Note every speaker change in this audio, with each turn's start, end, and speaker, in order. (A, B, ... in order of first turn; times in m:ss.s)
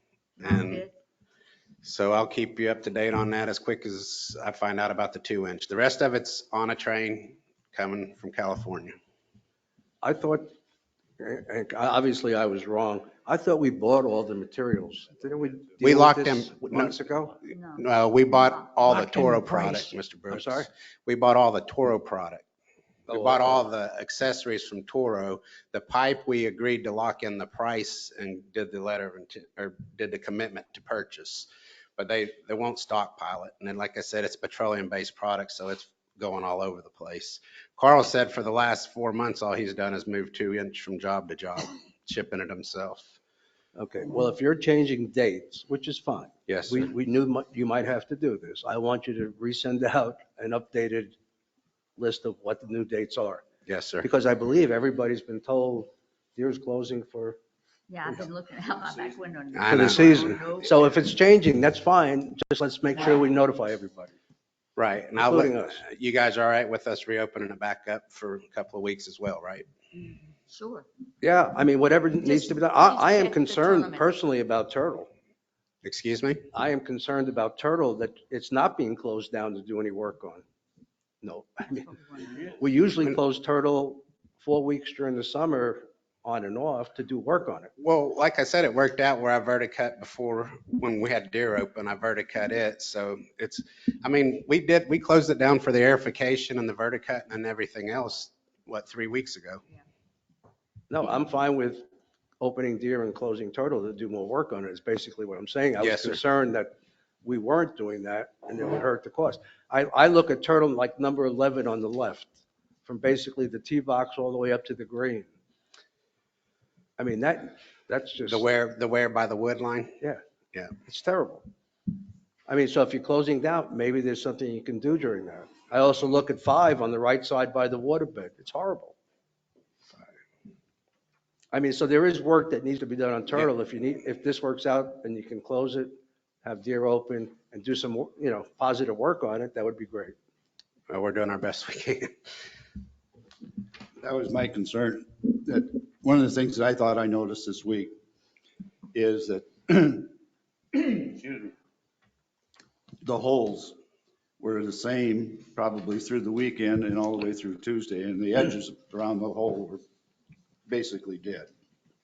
0:00.4-0:00.8 A
0:00.4-0:00.9 B
0:01.8-0:08.9 A
0:10.0-0:10.5 C
0:11.2-0:17.4 C
0:15.8-0:16.9 A
0:17.5-0:19.9 B
0:17.7-0:22.4 A
0:20.3-0:20.7 C
0:23.1-0:23.6 C
0:23.1-0:43.2 A
0:43.7-0:51.2 C
0:46.5-0:46.9 A
0:52.0-0:53.4 C
0:53.6-0:54.1 A
0:54.0-0:57.4 C
0:57.9-1:00.9 B
0:59.5-1:00.4 A
0:59.7-1:04.1 C
1:04.8-1:09.6 A
1:05.2-1:05.8 C
1:09.9-1:10.8 B
1:11.2-1:15.1 C
1:12.2-1:14.1 B
1:15.8-1:16.4 A
1:16.5-1:20.4 C
1:21.2-1:27.7 C
1:21.9-1:22.3 B
1:27.8-1:39.6 A
1:40.9-1:41.8 C
1:42.4-1:52.3 C
1:45.8-1:46.2 A
1:52.8-1:55.3 C
1:57.0-1:58.4 C
1:58.3-2:00.0 A
2:00.8-2:01.4 C
2:02.5-2:09.0 C
2:11.5-2:20.1 C
2:20.9-2:22.1 A
2:24.0-2:27.9 D
2:28.9-2:30.1 D
2:30.7-2:31.5 D
2:33.0-2:33.7 D
2:34.4-2:39.8 D
2:40.7-2:41.5 D